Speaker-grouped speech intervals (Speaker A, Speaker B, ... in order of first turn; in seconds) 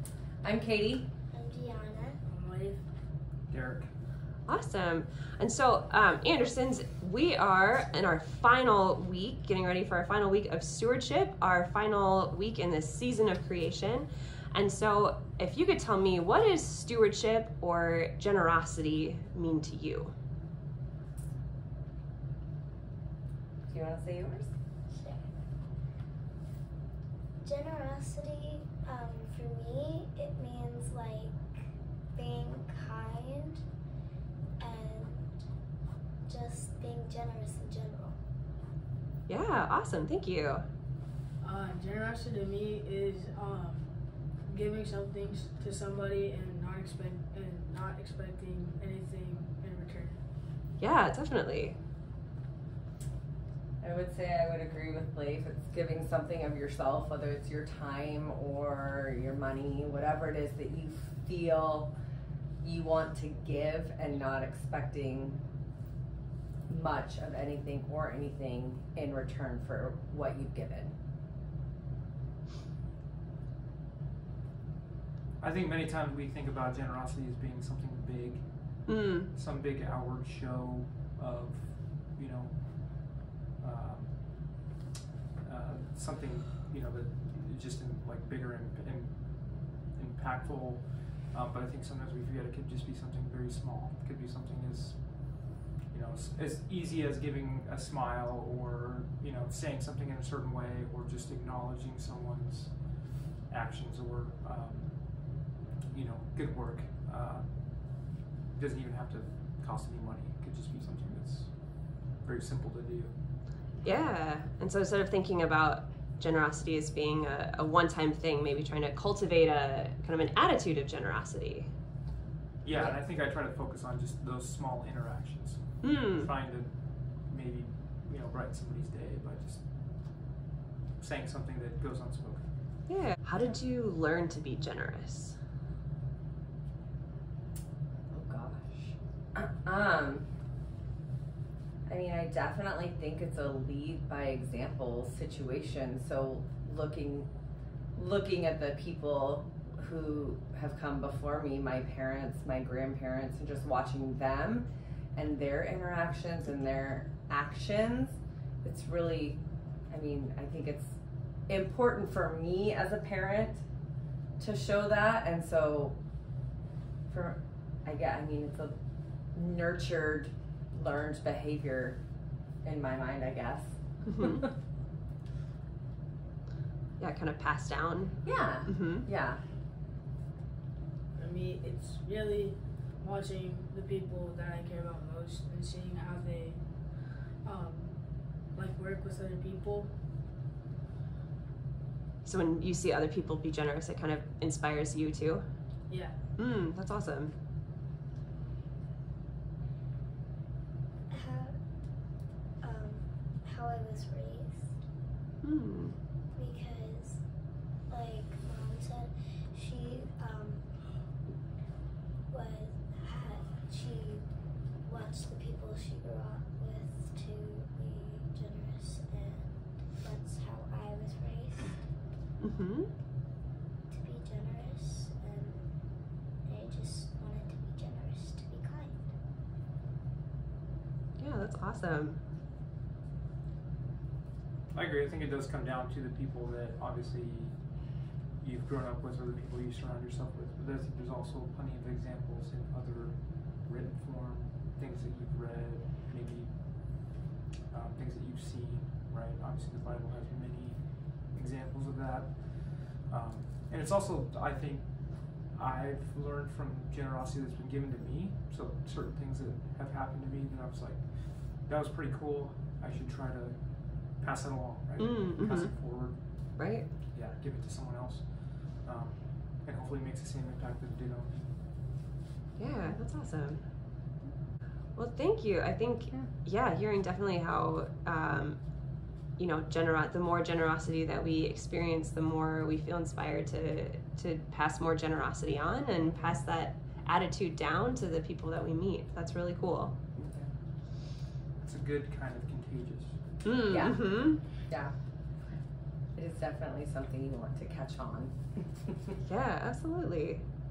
Speaker A: 0.4-1.1, 23.7-24.5, 53.8-61.9, 62.6-65.4, 66.7-71.0, 138.1-140.3, 141.9-147.3, 147.9-160.9, 161.5-163.6, 164.4-166.0, 167.1-168.8, 169.3-172.0, 172.6-174.4, 178.2-179.4, 290.1-290.5, 293.7-294.9, 296.1-299.1
Speaker B: 1.3-2.2, 24.9-25.2, 27.4-33.6, 34.6-35.4, 36.2-38.2, 201.1-201.5, 202.6-204.8, 206.3-210.7, 212.3-214.3, 214.8-221.9, 223.9-229.1
Speaker C: 2.3-2.9, 41.4-50.2, 181.1-190.0, 195.9-196.2
Speaker D: 3.5-3.9, 75.4-84.7, 85.4-113.2, 122.6-130.2, 131.0-132.9, 234.7-247.2, 247.7-271.6, 291.6-293.4
Speaker E: 4.5-20.1, 39.3-40.6, 50.8-51.8, 78.8-79.3, 113.8-121.7, 125.8-126.3, 132.9-135.4, 174.1-174.4, 177.0-179.1, 192.2-195.4, 196.3-197.3, 205.4-206.0, 222.4-222.9, 231.2-232.2, 265.0-265.8, 266.5-266.9, 272.6-273.7, 274.9-289.9, 293.4-294.4, 299.2-300.4